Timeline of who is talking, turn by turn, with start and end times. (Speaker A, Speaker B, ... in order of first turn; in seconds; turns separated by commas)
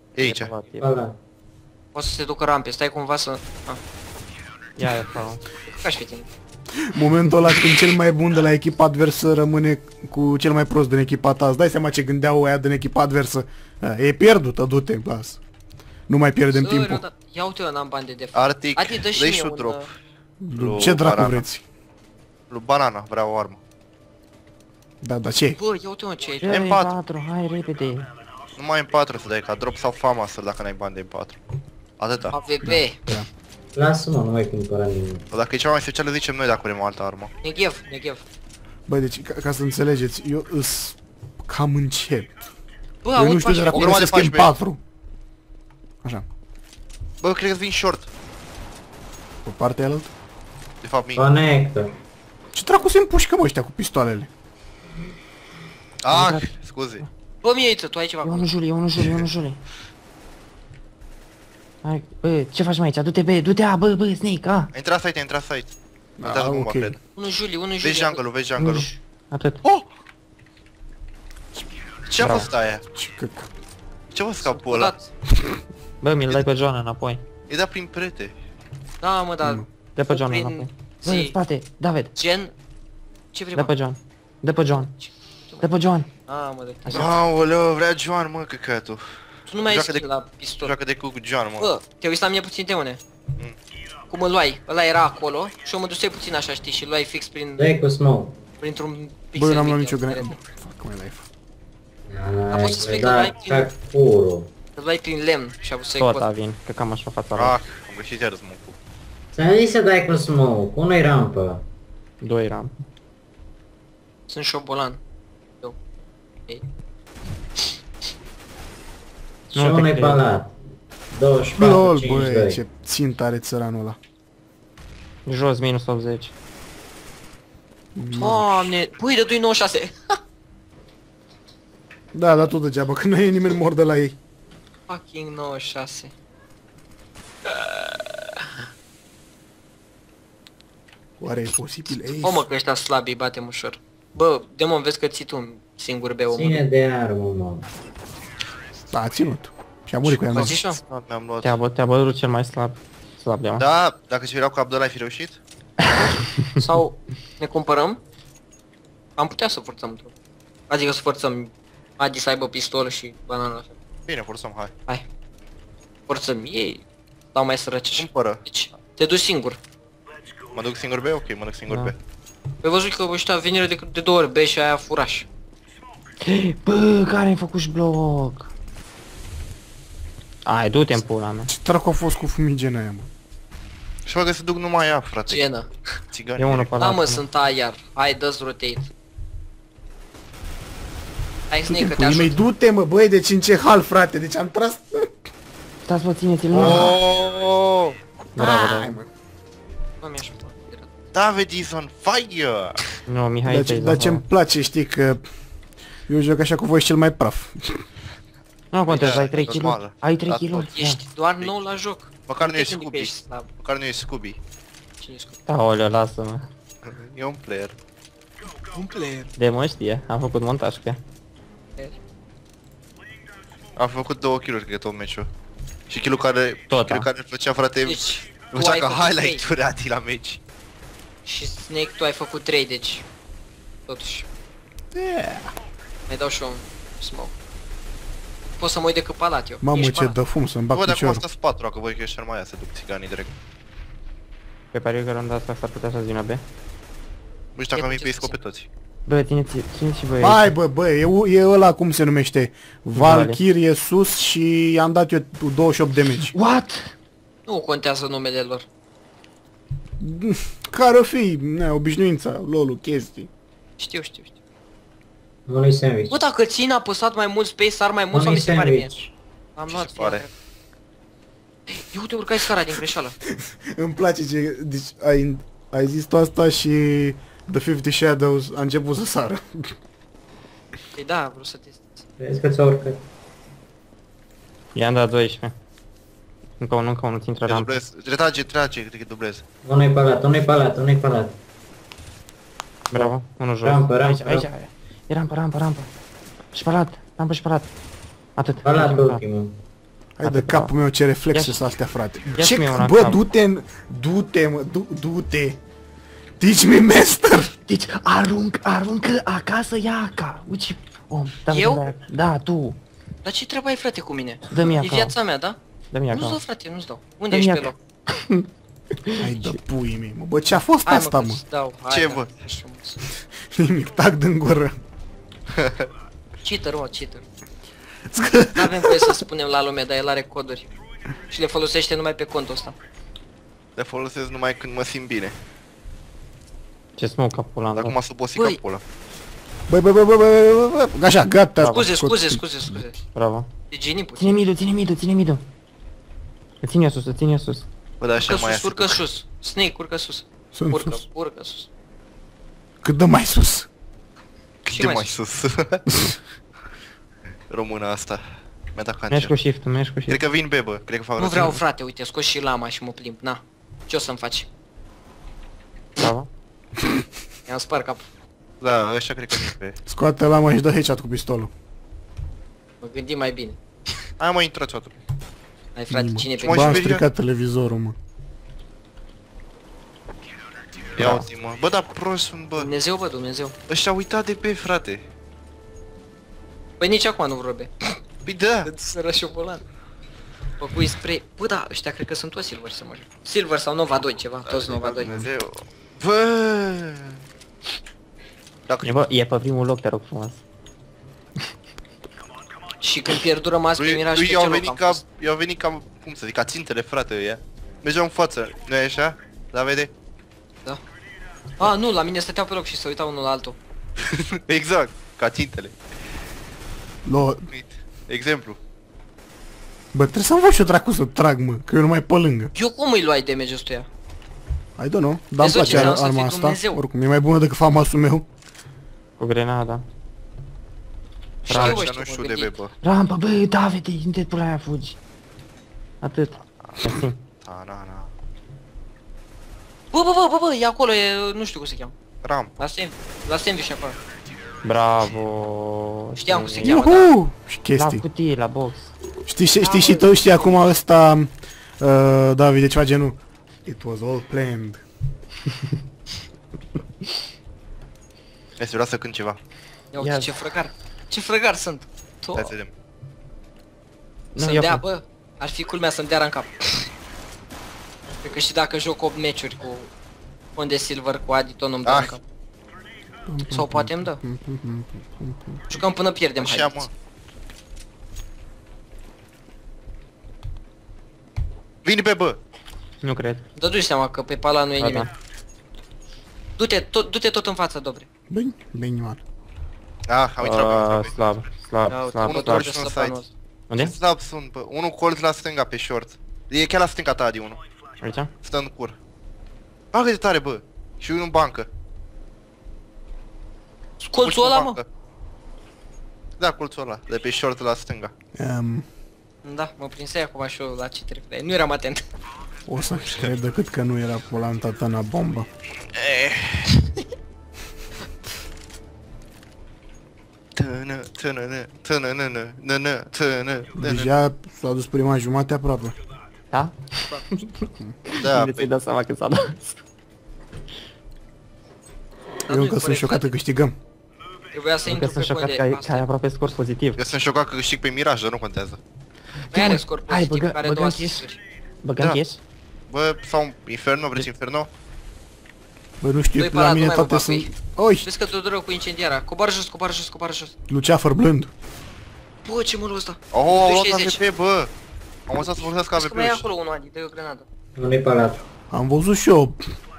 Speaker A: 0.1-0.5, Speaker B: 0.2-1.0, Speaker C: 0.8-1.1, Speaker D: 1.9-3.8, Speaker B: 4.8-5.4, Speaker D: 5.7-6.3, Speaker E: 6.7-15.4, Speaker E: 16.1-17.0, Speaker D: 16.5-19.9, Speaker A: 18.3-19.9, Speaker E: 20.4-21.6, Speaker A: 20.5-21.4, Speaker A: 22.5-23.6, Speaker E: 25.0-25.6, Speaker D: 25.6-26.6, Speaker B: 26.4-28.1, Speaker A: 26.5-26.9, Speaker A: 28.6-31.4, Speaker A: 32.0-32.4, Speaker D: 32.3-33.0, Speaker E: 32.6-33.3, Speaker C: 33.7-35.2, Speaker A: 35.3-37.3, Speaker D: 37.4-38.2, Speaker E: 38.9-42.3, Speaker D: 43.0-44.0, Speaker E: 43.1-44.8, Speaker A: 43.7-44.5, Speaker A: 47.2-48.1, Speaker E: 49.4-50.1, Speaker A: 50.8-51.3, Speaker C: 51.1-51.9, Speaker E: 52.5-54.3, Speaker A: 56.0-57.0, Speaker B: 56.1-56.5, Speaker D: 57.4-58.5, Speaker B: 58.2-59.6, Speaker B: 61.8-64.7, Speaker A: 64.7-67.0, Speaker E: 66.2-67.0, Speaker D: 67.2-68.2, Speaker A: 67.8-68.8, Speaker B: 68.6-69.6, Speaker A: 72.1-72.8, Speaker B: 72.2-72.5, Speaker E: 72.9-73.5, Speaker A: 74.1-74.9, Speaker D: 74.5-75.1, Speaker B: 76.0-77.2, Speaker A: 77.5-78.3, Speaker D: 79.0-81.4, Speaker B: 79.9-82.1, Speaker D: 82.1-82.5, Speaker D: 83.3-83.7, Speaker B: 83.5-84.9, Speaker D: 85.0-85.7, Speaker B: 85.6-86.1, Speaker D: 86.3-87.1, Speaker B: 86.9-87.1, Speaker A: 86.9-90.0, Speaker D: 89.5-90.7, Speaker A: 90.6-91.7, Speaker D: 91.6-93.0, Speaker D: 94.1-97.7, Speaker C: 97.6-98.3, Speaker D: 98.6-100.4, Speaker E: 99.3-101.3, Speaker C: 102.1-104.5, Speaker D: 102.5-103.7, Speaker D: 104.8-106.3, Speaker B: 106.0-107.6, Speaker A: 107.3-108.7, Speaker C: 109.3-111.6, Speaker B: 112.2-112.7, Speaker D: 114.3-115.0, Speaker C: 119.5-120.5, Speaker B: 119.5-120.2, Speaker C: 121.1-122.6, Speaker E: 121.6-124.0, Speaker B: 125.2-126.3, Speaker E: 127.9-128.7, Speaker D: 128.2-130.2, Speaker E: 132.1-134.2, Speaker D: 134.9-136.1, Speaker D: 137.4-138.5, Speaker E: 141.2-142.4, Speaker D: 142.2-146.7, Speaker C: 146.3-147.6, Speaker E: 148.9-150.6, Speaker D: 150.1-150.8, Speaker A: 150.3-151.6, Speaker B: 151.4-153.7, Speaker A: 153.6-155.4, Speaker B: 155.8-156.6, Speaker D: 156.6-158.0, Speaker D: 159.2-160.1, Speaker D: 160.7-163.7, Speaker A: 164.1-164.7, Speaker D: 166.1-169.6, Speaker A: 168.0-168.4, Speaker A: 170.5-171.9, Speaker B: 171.7-171.9, Speaker D: 172.6-175.3, Speaker B: 176.2-178.5, Speaker B: 180.4-181.5, Speaker E: 181.5-183.1, Speaker A: 184.1-185.4, Speaker D: 185.3-185.7, Speaker A: 186.1-186.7, Speaker B: 186.4-187.2, Speaker D: 186.8-188.9, Speaker D: 191.5-192.4, Speaker E: 191.6-195.1, Speaker B: 195.8-197.0, Speaker E: 196.5-196.9, Speaker A: 196.5-198.0, Speaker B: 198.3-199.0, Speaker E: 198.4-199.1, Speaker D: 200.0-200.9, Speaker A: 201.1-202.8, Speaker B: 203.1-204.2, Speaker E: 203.4-205.2, Speaker E: 206.1-207.8, Speaker B: 208.7-211.0, Speaker A: 208.9-210.7, Speaker D: 208.9-209.6, Speaker D: 210.7-213.5, Speaker A: 212.3-214.4, Speaker D: 215.0-215.4, Speaker B: 215.5-216.5, Speaker A: 216.8-217.7, Speaker D: 218.7-219.3, Speaker B: 219.4-221.0, Speaker A: 223.8-225.3, Speaker A: 225.9-230.4, Speaker B: 226.7-227.1, Speaker D: 227.8-229.4, Speaker D: 231.2-233.0, Speaker D: 233.9-234.2, Speaker E: 234.9-235.5, Speaker D: 236.1-237.3, Speaker D: 238.6-240.2, Speaker E: 239.6-241.2, Speaker A: 240.7-243.3, Speaker B: 244.7-246.4, Speaker A: 247.6-248.7, Speaker D: 247.7-248.3, Speaker B: 249.1-250.5, Speaker E: 250.2-256.3, Speaker B: 252.9-253.4, Speaker B: 256.3-256.9, Speaker D: 257.4-258.6, Speaker E: 260.0-263.3, Speaker D: 263.8-264.3, Speaker C: 265.5-266.2, Speaker D: 266.1-268.9, Speaker C: 268.1-269.1, Speaker D: 269.6-270.3, Speaker A: 269.7-270.2, Speaker D: 271.7-273.1, Speaker E: 273.2-279.8, Speaker D: 280.9-282.1, Speaker C: 282.2-283.0, Speaker B: 284.7-285.5, Speaker B: 286.6-287.8, Speaker A: 287.4-289.4, Speaker C: 289.6-291.4, Speaker B: 292.9-295.9, Speaker C: 292.9-294.5, Speaker B: 296.5-297.7, Speaker B: 298.4-299.2, Speaker C: 298.6-299.6, Speaker B: 300.2-300.7, Speaker E: 300.2-305.6, Speaker B: 302.3-303.2, Speaker E: 306.4-307.5, Speaker B: 307.7-312.8, Speaker D: 311.5-311.9, Speaker D: 313.2-317.7, Speaker B: 314.5-315.1, Speaker B: 315.9-316.4, Speaker B: 317.3-318.4, Speaker B: 319.0-319.3, Speaker E: 319.2-321.4, Speaker D: 320.8-323.0, Speaker A: 321.9-322.3, Speaker E: 323.4-324.8, Speaker A: 325.5-325.9, Speaker D: 326.4-327.2, Speaker E: 328.1-329.2, Speaker D: 328.6-330.7, Speaker D: 331.3-332.8, Speaker A: 333.8-335.4, Speaker B: 337.0-338.0, Speaker A: 337.7-338.8, Speaker E: 339.7-342.8, Speaker B: 341.6-341.9, Speaker D: 341.6-343.0, Speaker B: 343.1-343.5, Speaker D: 343.7-344.4, Speaker B: 344.2-345.4, Speaker B: 346.6-347.7, Speaker A: 348.0-349.0, Speaker D: 348.2-351.7, Speaker E: 350.5-351.0, Speaker E: 352.8-353.7, Speaker A: 354.6-356.1, Speaker D: 354.7-355.1, Speaker A: 357.5-359.4, Speaker B: 359.1-360.2, Speaker A: 360.1-361.6, Speaker D: 361.2-364.5, Speaker B: 366.0-366.3, Speaker D: 367.5-368.1, Speaker A: 368.6-369.8, Speaker E: 369.9-371.5, Speaker D: 372.8-373.6, Speaker A: 374.2-374.9, Speaker D: 375.7-376.9, Speaker E: 375.9-377.9, Speaker A: 376.4-377.0, Speaker A: 380.9-382.7, Speaker E: 381.0-381.2, Speaker D: 382.6-383.5, Speaker A: 383.7-385.0, Speaker D: 386.8-388.0, Speaker A: 388.2-388.7, Speaker D: 388.6-389.6, Speaker D: 390.6-395.1, Speaker A: 394.5-397.2, Speaker A: 398.7-398.9, Speaker B: 398.8-400.4, Speaker D: 402.8-405.0, Speaker A: 403.8-409.9, Speaker D: 411.6-413.6, Speaker A: 414.0-415.7, Speaker E: 417.0-417.5, Speaker A: 417.5-418.6, Speaker E: 419.9-422.5, Speaker D: 422.5-423.9, Speaker E: 424.8-428.2, Speaker D: 425.4-426.8, Speaker B: 429.2-429.8, Speaker D: 431.4-432.5, Speaker A: 431.4-432.7, Speaker B: 431.5-431.8, Speaker B: 432.8-435.0, Speaker B: 436.0-437.2, Speaker A: 436.6-436.9, Speaker A: 437.4-438.1, Speaker D: 439.9-441.9, Speaker A: 442.2-442.5, Speaker D: 442.6-444.0, Speaker B: 444.6-446.9, Speaker D: 446.1-447.1, Speaker E: 446.6-448.0, Speaker B: 447.8-448.9, Speaker E: 449.2-454.8, Speaker D: 449.6-450.5, Speaker A: 458.6-459.4, Speaker D: 459.9-462.5, Speaker B: 460.0-460.4, Speaker A: 462.3-462.7, Speaker B: 464.3-464.8, Speaker D: 464.4-466.9, Speaker D: 468.2-469.9, Speaker D: 470.6-472.2, Speaker A: 471.8-472.1, Speaker E: 473.3-475.6, Speaker D: 473.5-474.2, Speaker D: 475.7-476.9, Speaker A: 476.4-476.9, Speaker A: 481.8-482.4, Speaker B: 483.0-483.4, Speaker D: 483.6-485.1, Speaker B: 484.8-485.1, Speaker D: 486.6-488.1, Speaker E: 488.3-489.2, Speaker A: 490.1-491.1, Speaker B: 490.4-492.8, Speaker D: 491.9-493.3, Speaker A: 492.2-493.2, Speaker A: 493.8-497.6, Speaker B: 498.0-498.3, Speaker A: 498.4-499.0, Speaker A: 499.9-501.7, Speaker D: 504.0-504.8, Speaker A: 504.2-504.9, Speaker A: 506.4-508.1, Speaker E: 508.3-508.9, Speaker D: 509.4-512.0, Speaker E: 512.7-515.5, Speaker A: 515.9-516.7, Speaker A: 520.5-524.1, Speaker E: 523.8-525.9, Speaker B: 526.5-529.8, Speaker A: 528.1-528.7, Speaker D: 532.5-533.4, Speaker E: 532.5-533.7, Speaker D: 534.5-536.1, Speaker B: 534.9-537.0, Speaker A: 537.0-538.8, Speaker B: 539.5-541.2, Speaker D: 539.5-541.4, Speaker B: 541.8-542.4, Speaker A: 542.9-544.7, Speaker E: 546.0-548.0, Speaker D: 546.4-547.5, Speaker D: 548.0-550.5, Speaker E: 550.7-551.5, Speaker D: 552.4-554.2, Speaker A: 553.3-554.7, Speaker A: 555.3-556.5, Speaker D: 555.9-557.5, Speaker C: 557.8-558.4, Speaker E: 558.7-559.6